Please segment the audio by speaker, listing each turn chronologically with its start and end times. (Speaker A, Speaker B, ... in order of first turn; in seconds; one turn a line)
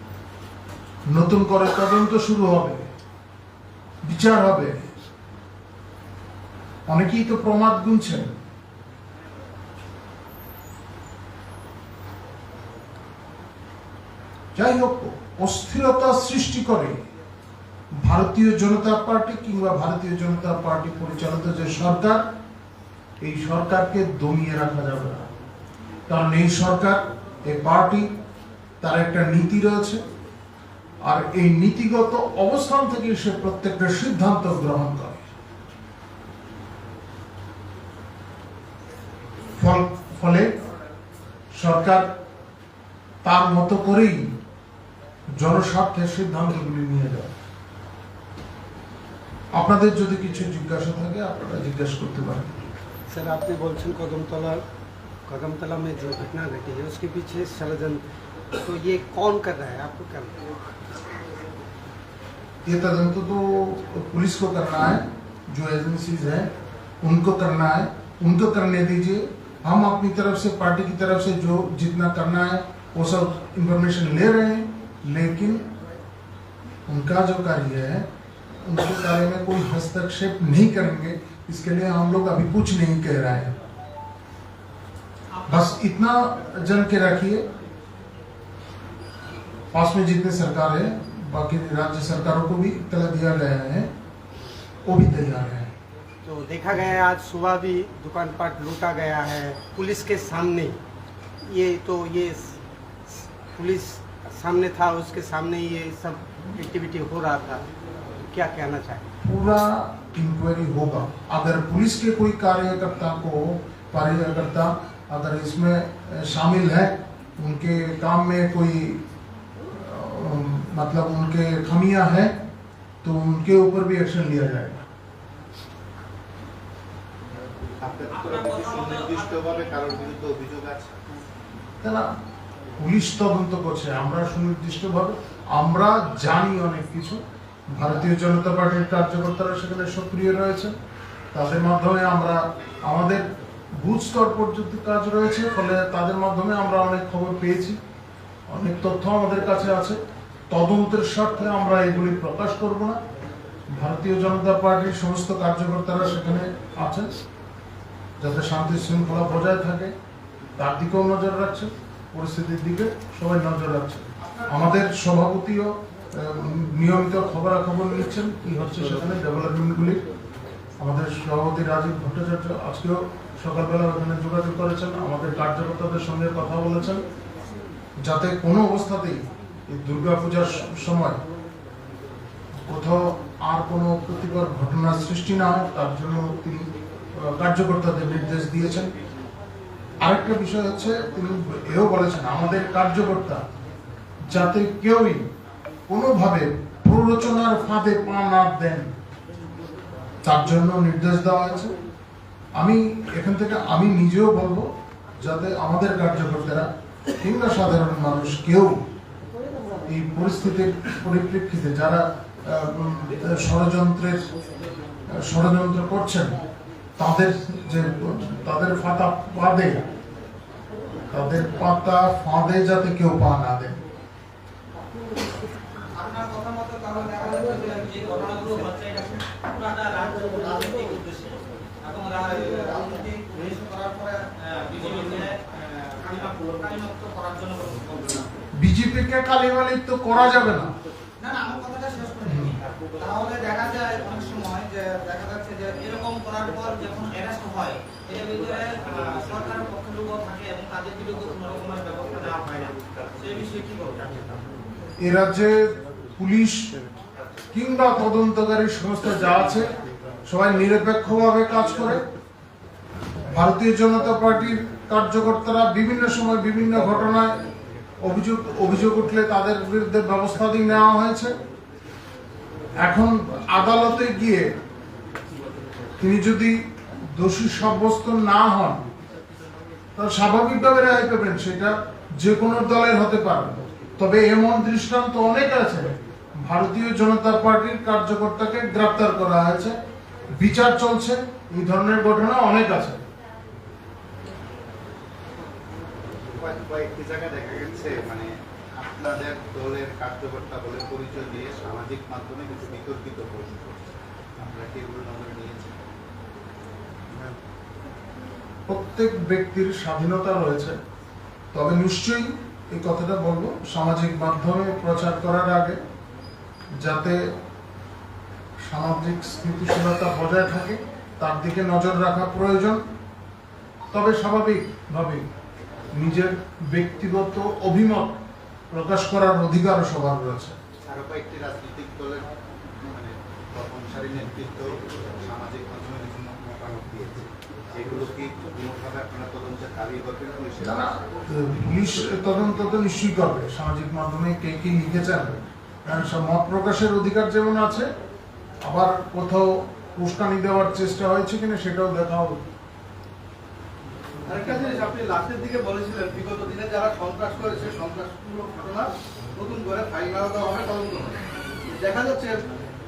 Speaker A: 1.1-2.8
Speaker A: 4.0-4.8
Speaker A: 6.9-8.3
Speaker A: 14.5-17.0
Speaker A: 18.0-22.2
Speaker A: 23.2-25.3
Speaker A: 26.1-28.1
Speaker A: 28.8-30.0
Speaker A: 31.0-35.2
Speaker A: 39.6-40.5
Speaker A: 41.5-42.1
Speaker A: 43.2-44.2
Speaker A: 45.4-47.3
Speaker A: 49.5-52.5
Speaker B: 53.1-54.6
Speaker B: 55.3-58.0
Speaker B: 58.6-60.5
Speaker A: 62.6-66.5
Speaker A: 67.0-75.7
Speaker A: 76.9-78.1
Speaker A: 78.6-83.5
Speaker A: 85.4-87.5
Speaker A: 89.7-93.9
Speaker A: 94.8-95.7
Speaker B: 96.2-100.8
Speaker B: 101.5-107.6
Speaker B: 108.3-109.0
Speaker A: 109.2-119.0
Speaker A: 119.7-122.3
Speaker A: 123.0-124.8
Speaker C: 127.8-131.0
Speaker D: 128.1-129.7
Speaker A: 131.8-132.1
Speaker A: 132.8-137.2
Speaker A: 137.7-140.8
Speaker A: 141.3-143.2
Speaker A: 143.8-147.8
Speaker A: 148.5-153.0
Speaker A: 153.7-157.2
Speaker A: 158.2-159.9
Speaker A: 160.6-170.0
Speaker A: 170.8-177.0
Speaker A: 178.0-181.2
Speaker A: 182.7-188.9
Speaker A: 190.0-193.4
Speaker A: 194.2-195.2
Speaker A: 195.9-198.9
Speaker A: 200.2-201.7
Speaker A: 202.6-208.8
Speaker A: 209.9-214.3
Speaker A: 215.1-216.4
Speaker A: 217.0-219.8
Speaker A: 221.1-223.8
Speaker D: 225.9-238.3
Speaker A: 238.6-240.7
Speaker D: 241.2-254.4
Speaker A: 242.2-242.5
Speaker A: 255.0-256.7
Speaker A: 257.5-259.7
Speaker A: 260.3-262.0
Speaker A: 263.3-267.4
Speaker A: 268.0-271.3
Speaker A: 272.8-274.5
Speaker A: 276.0-276.6
Speaker A: 277.1-278.8
Speaker A: 279.9-289.8
Speaker A: 290.3-293.0
Speaker C: 296.4-303.8
Speaker C: 304.4-305.8
Speaker A: 308.7-310.8
Speaker A: 311.5-315.8
Speaker A: 316.8-317.3
Speaker A: 318.6-322.8
Speaker A: 323.9-325.2
Speaker A: 325.9-328.1
Speaker A: 328.7-330.6
Speaker C: 330.9-340.9
Speaker A: 340.6-347.9
Speaker A: 348.6-352.4
Speaker E: 354.2-361.2
Speaker E: 361.7-362.4